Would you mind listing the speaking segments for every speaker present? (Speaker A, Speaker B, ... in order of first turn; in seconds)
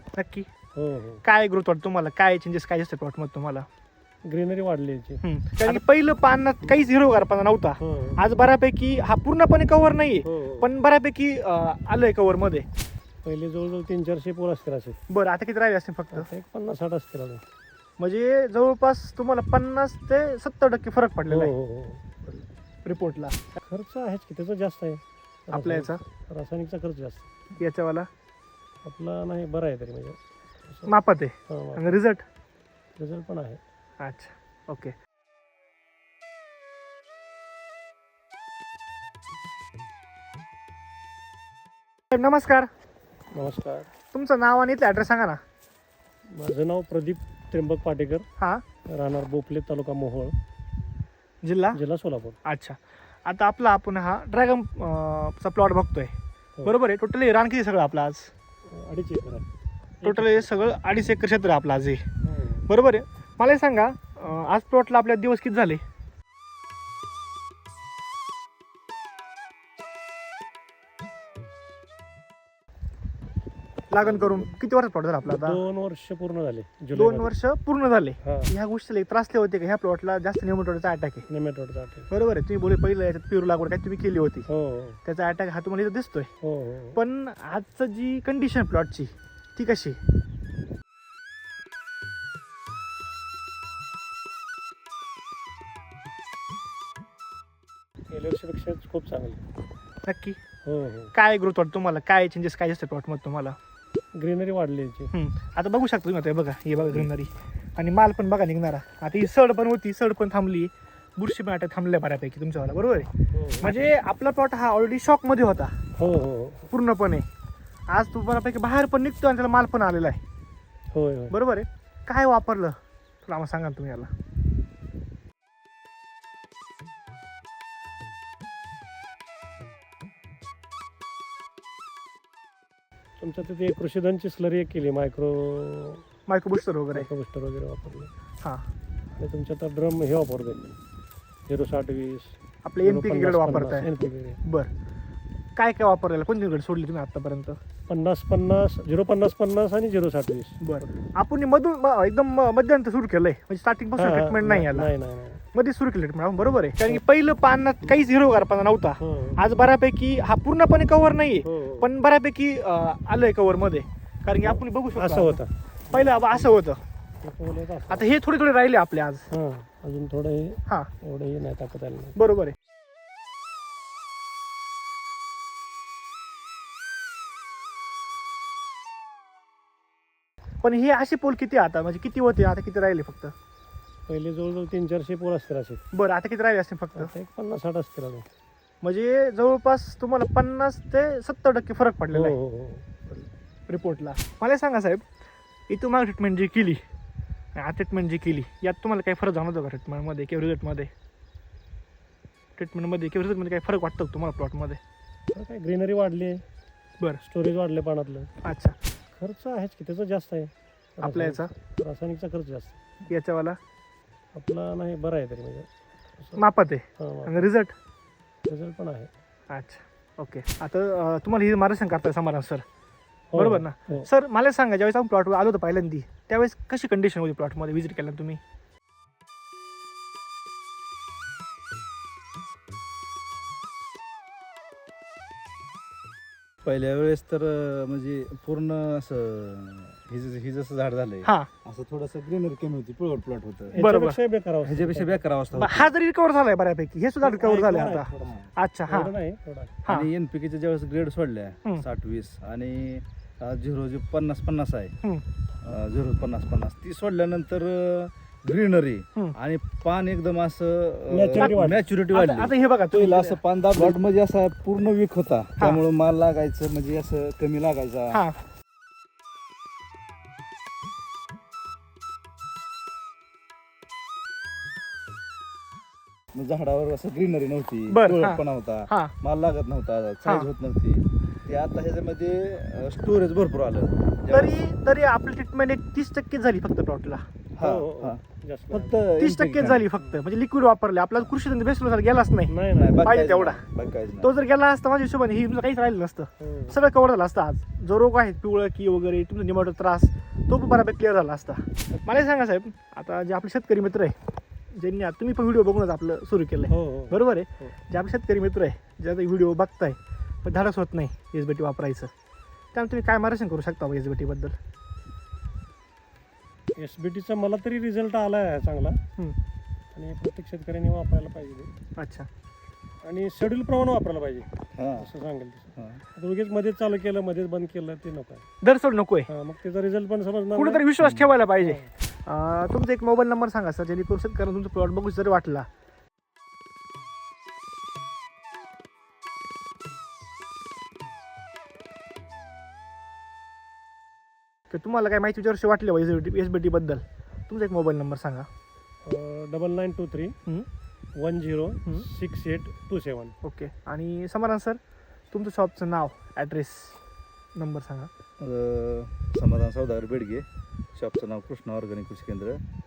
Speaker A: 0.2-0.5, 1.2-3.7, 5.2-12.7, 15.1-16.3, 18.0-21.5, 22.9-23.5, 25.5-26.0, 27.6-28.1, 30.9-32.2, 34.0-34.9, 42.1-42.7, 44.1-45.4, 48.4-48.6, 51.4-51.8, 52.5-58.3, 60.0-62.1, 62.7-65.8, 73.9-75.6, 77.0-81.2, 82.1-84.5, 85.0-86.3, 87.0-90.0, 100.1-100.4, 101.1-103.6, 105.1-115.7, 116.7-117.3, 117.9-120.2, 121.3-124.1, 136.3-137.1, 142.6-143.9, 144.4-144.7, 145.6-147.6, 150.6-154.9, 155.5-166.8, 167.9-169.3, 172.2-172.6, 180.6-183.3, 185.9-187.1, 188.8-192.4, 193.7-195.1, 195.7-196.8, 197.6-200.9, 202.6-204.8, 208.4-208.8, 211.0-211.5, 213.1-213.6, 216.4-217.7, 219.5-222.6, 223.3-228.4, 241.2-241.5, 243.8-244.2, 245.5-249.1, 249.8-250.1, 261.4-264.0, 277.9-279.1, 284.3-287.2, 289.2-293.6, 294.2-304.2, 304.8-312.1, 312.7-314.6, 322.0-322.3, 328.6-329.3, 330.6-335.7, 344.7-348.5, 353.4-354.8, 355.3-357.0, 357.6-358.1
Speaker B: 0.8-1.2, 4.2-5.8, 7.8-8.2, 10.2-10.7, 13.2-15.0, 16.1-17.4, 21.3-22.1, 23.6-27.3, 28.8-30.2, 31.5-32.0, 33.0-33.6, 43.3-43.9, 46.3-48.3, 48.9-50.4, 51.7-52.4, 58.7-59.5, 60.0-60.5, 62.2-62.7, 74.0-74.5, 75.2-77.3, 78.2-78.5, 81.3-82.1, 84.5-85.0, 86.4-87.0, 98.1-99.4, 100.7-101.1, 104.2-105.1, 106.8-107.1, 113.3-113.7, 116.0-116.7, 120.9-121.3, 133.2-136.0, 136.9-138.1, 139.2-140.7, 141.5-144.4, 147.9-150.9, 154.0-155.4, 159.0-159.4, 161.4-161.9, 164.4-166.5, 167.2-168.1, 169.3-172.2, 184.1-185.8, 186.9-188.3, 192.1-193.0, 205.3-206.4, 207.2-208.3, 209.2-212.8, 214.3-215.7, 217.0-217.5, 218.5-219.1, 223.3-224.1, 243.7-245.3, 247.2-249.8, 261.1-261.8, 287.6-289.0, 292.5-293.2, 296.4-296.8, 306.7-307.7, 316.8-319.0, 319.9-321.7, 323.0-328.5, 329.3-330.9, 331.6-331.9, 349.1-350.4, 351.2-353.4
Speaker C: 236.6-243.8, 244.6-245.9, 249.9-254.9, 255.6-268.2, 276.3-284.6, 287.6-288.2, 288.7-289.9, 292.8-294.3, 324.8-325.1, 325.8-326.0, 331.0-331.3, 358.4-362.6